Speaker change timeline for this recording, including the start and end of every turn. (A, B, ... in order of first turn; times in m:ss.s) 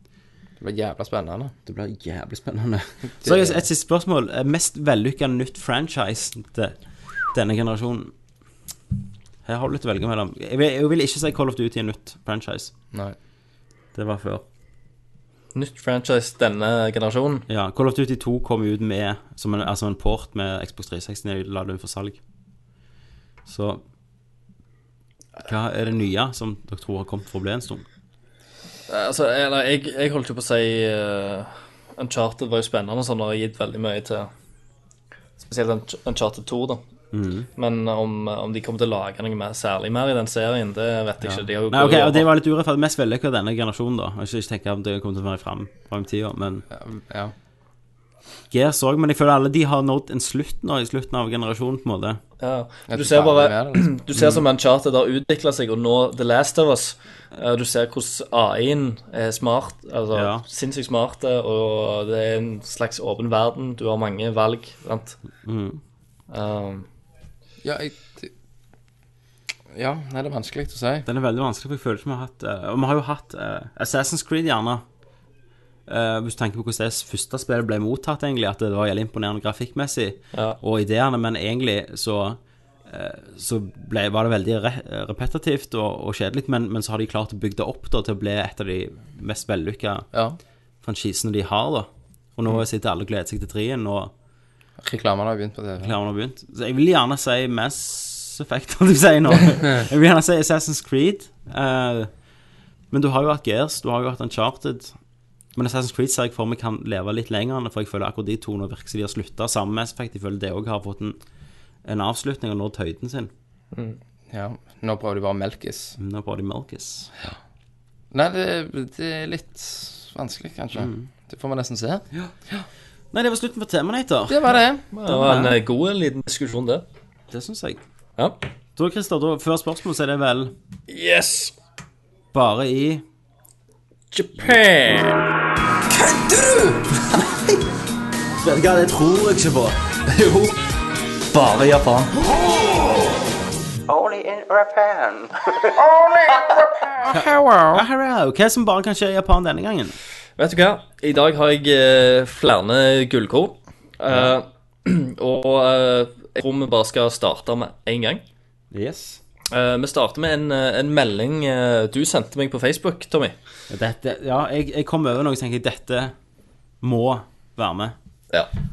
0:00.6-0:01.5 A
0:01.7-0:06.8 B
0:03.2-0:03.6 A
0:07.3-0:08.1 B
0:09.4-0:12.7 B
0:14.0-0:14.4 B
0:15.6-0:17.4 C
0:17.5-0:22.2 B
0:23.5-0:23.8 B
0:25.4-0:27.8 B
0:28.9-0:34.3 C
0:35.4-0:36.8 C
0:37.1-0:37.5 B
0:37.6-0:42.3 C
0:41.7-0:46.6 B
0:46.7-0:47.3 A
0:48.5-0:52.2 B
0:52.4-1:05.2 C
0:52.9-0:53.9 A
0:54.2-0:54.4 B
1:00.1-1:00.4 B
1:05.4-1:05.8 B
1:06.3-1:06.9 C
1:07.6-1:08.3 A
1:09.7-1:11.1 A
1:11.1-1:14.8 B
1:15.9-1:30.1 B
1:30.1-1:30.4 A
1:30.8-1:34.1 B
1:34.8-1:35.9 A
1:35.8-1:42.1 B
1:42.9-1:45.0 B
1:45.6-1:51.2 B
1:51.8-1:53.3 B
1:53.7-1:54.0 C
1:54.3-1:56.0 A
1:56.0-1:57.1 B
1:58.1-2:02.7 A
2:00.8-2:01.1 B
2:03.1-2:04.5 B
2:04.3-2:05.5 A
2:04.9-2:06.8 C
2:07.3-2:07.8 B
2:08.8-2:10.5 B
2:10.9-2:11.5 C
2:12.3-2:13.0 B
2:14.1-2:15.2 C
2:16.1-2:17.6 B
2:18.4-2:20.6 B
2:21.3-2:22.2 C
2:22.3-2:22.8 B
2:23.9-2:25.9 B
2:27.0-2:30.0 B
2:27.0-2:27.8 A
2:30.4-2:38.2 C
2:38.7-2:39.2 B
2:39.5-2:43.4 C
2:43.7-2:46.1 B
2:46.8-2:48.0 B